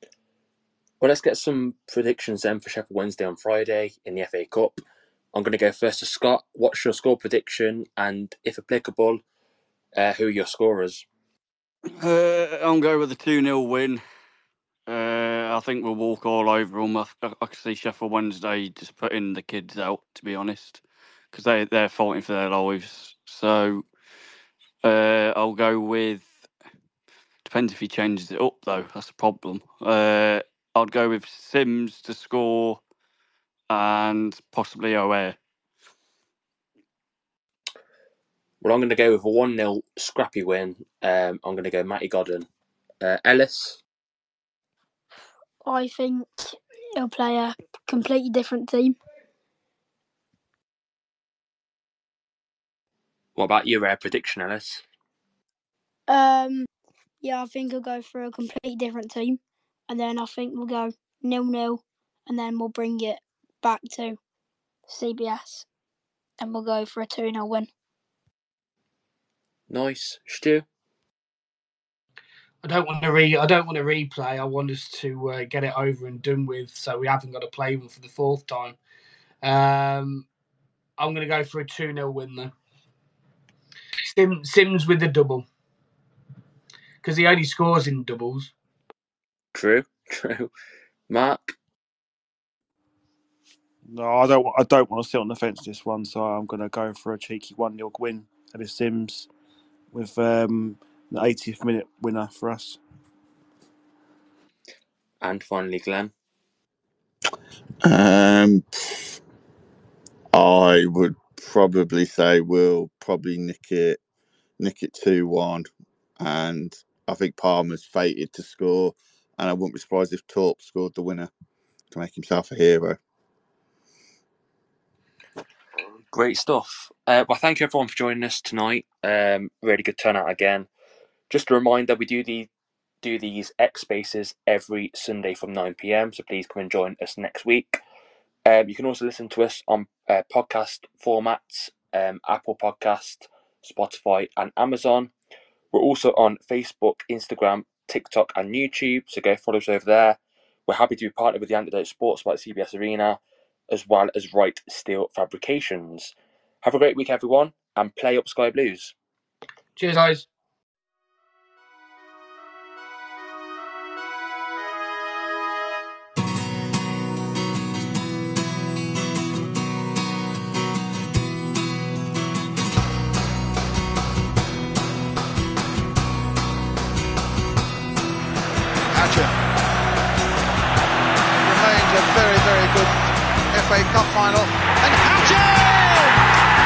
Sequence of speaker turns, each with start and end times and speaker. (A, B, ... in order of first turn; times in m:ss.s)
0:01.0-0:09.2 A
0:10.0-0:11.1 A
0:12.0-0:14.0 B
0:14.9-0:23.8 B
0:24.8-0:26.4 B
0:27.4-0:32.8 B
0:33.7-0:35.4 B
0:38.6-0:42.5 A
0:43.0-0:43.8 A
0:45.6-0:49.0 C
0:53.4-0:54.8 A
0:56.1-0:56.7 C
0:57.2-1:04.2 C
1:04.9-1:05.7 C
1:06.4-1:07.7 C
1:09.7-1:10.6 A
1:12.6-1:18.8 D
1:19.4-1:20.3 D
1:21.0-1:22.5 D
1:24.0-1:25.4 D
1:27.0-1:28.5 D
1:29.5-1:30.5 A
1:31.1-1:31.6 A
1:33.9-1:39.3 E
1:39.9-1:42.8 E
1:45.2-1:46.1 A
1:47.8-1:49.2 F
1:50.3-1:54.0 F
1:54.6-2:01.3 F
2:01.9-2:03.0 F
2:06.1-2:10.7 A
2:11.3-2:12.5 A
2:13.0-2:17.8 A
2:18.4-2:25.1 A
2:25.7-2:39.0 A
2:39.8-2:40.3 D
2:58.9-2:59.3 G
3:01.4-3:06.2 G